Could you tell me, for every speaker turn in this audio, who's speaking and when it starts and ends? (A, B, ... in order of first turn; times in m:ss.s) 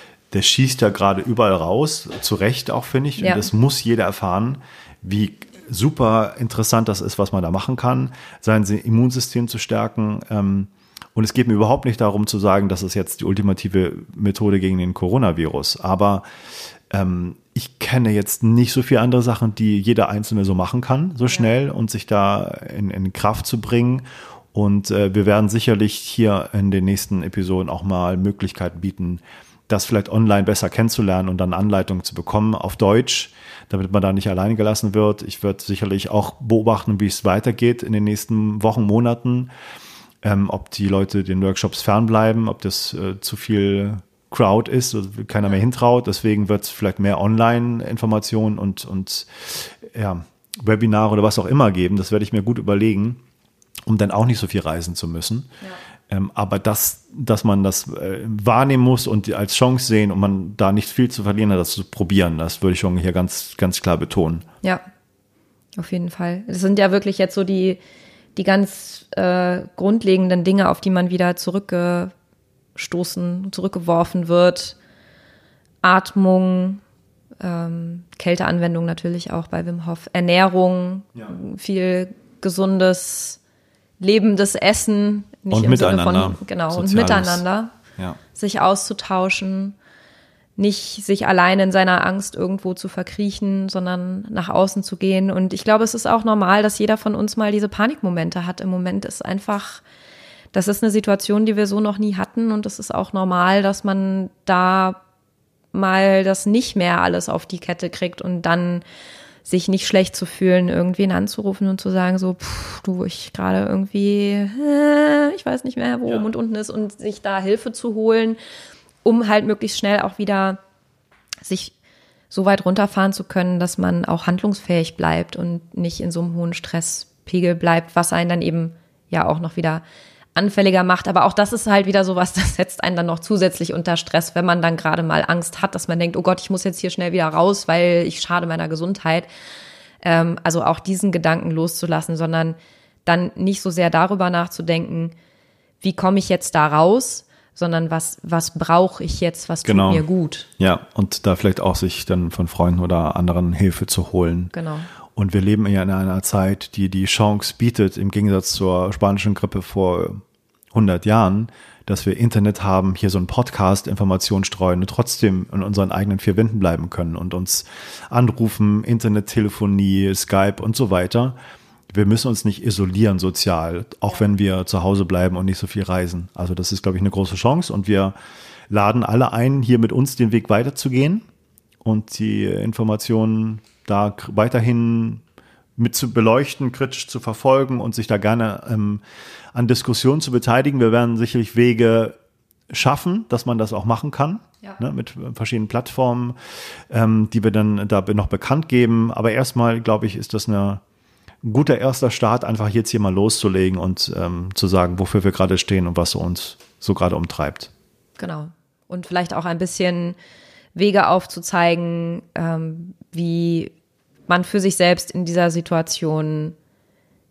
0:00.3-0:16.2 A
0:03.2-0:03.5 B
0:16.9-0:39.5 A
0:40.2-0:53.2 A
0:53.9-0:55.5 A
0:56.1-1:04.5 A
1:05.8-1:07.8 B
1:08.4-1:12.1 B
1:12.8-1:14.8 B
1:15.8-1:16.8 B
1:17.4-1:23.4 B
1:24.0-1:27.7 B
1:25.5-1:27.4 A
1:28.4-1:29.8 B
1:30.6-1:39.8 B
1:40.5-1:45.0 B
1:45.7-1:48.8 B
1:49.4-1:58.4 B
1:59.0-2:00.6 B
2:01.4-2:01.7 B
2:02.3-2:09.8 B
2:10.4-2:19.3 B
2:20.0-2:25.1 B
2:25.8-2:30.5 B
2:29.6-2:30.0 A
2:30.6-2:34.5 A
2:34.5-2:34.9 B
2:35.2-2:40.2 A
2:40.7-2:51.4 A
2:51.9-2:58.2 A
2:58.7-3:01.2 A
3:01.8-3:05.2 A
3:05.8-3:09.0 A
3:09.5-3:12.2 A
3:12.7-3:16.4 A
3:16.9-3:20.8 A
3:21.4-3:27.7 A
3:28.2-3:30.2 B
3:30.8-3:33.7 B
3:34.3-3:36.6 B